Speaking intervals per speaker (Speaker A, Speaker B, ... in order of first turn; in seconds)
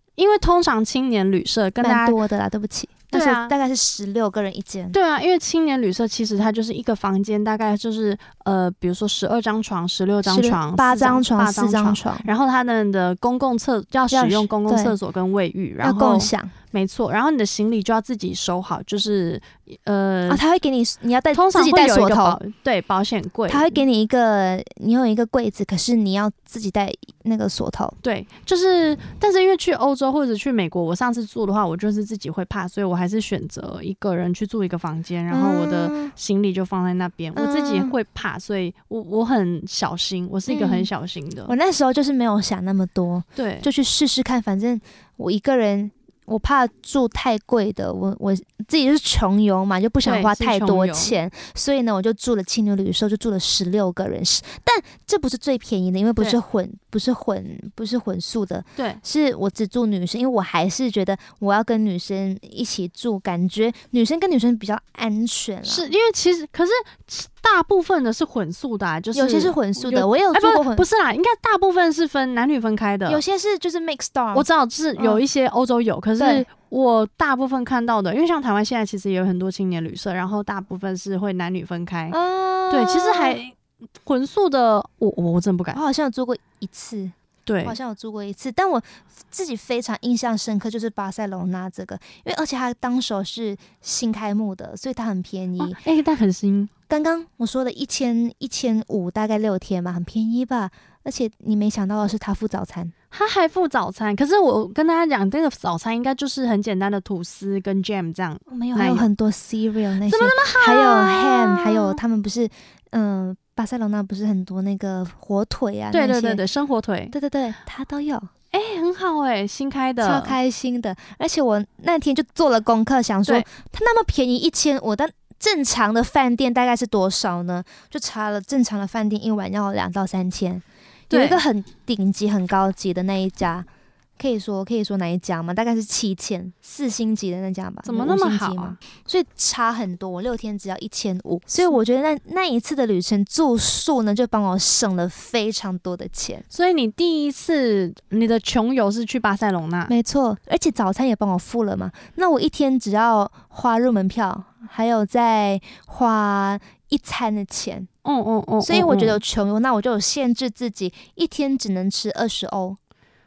Speaker A: 0.2-2.2, 3.1-3.5, 4.9-20.4, 21.3-23.8, 28.0-41.5, 43.4-43.7, 50.0-51.1, 65.7-73.2, 74.3-82.2, 82.7-85.8, 87.5-87.8, 95.6-96.7, 103.1-109.1, 110.1-112.0, 115.9-117.1, 118.5-120.4, 131.1-131.4, 137.8-138.8, 146.5-149.9, 158.1-159.2
Speaker B: 1.8-5.0, 10.2-12.3, 14.1-14.9, 15.8-16.5, 20.3-22.4, 23.5-28.0, 35.3-36.1, 37.4-37.9, 40.5-40.9, 41.5-65.9, 69.1-70.8, 73.1-75.2, 76.2-76.5, 82.1-83.4, 85.7-95.8, 96.9-102.9, 108.5-116.4, 117.1-118.3, 120.0-133.7, 134.2-146.4, 149.9-157.9, 158.6-162.8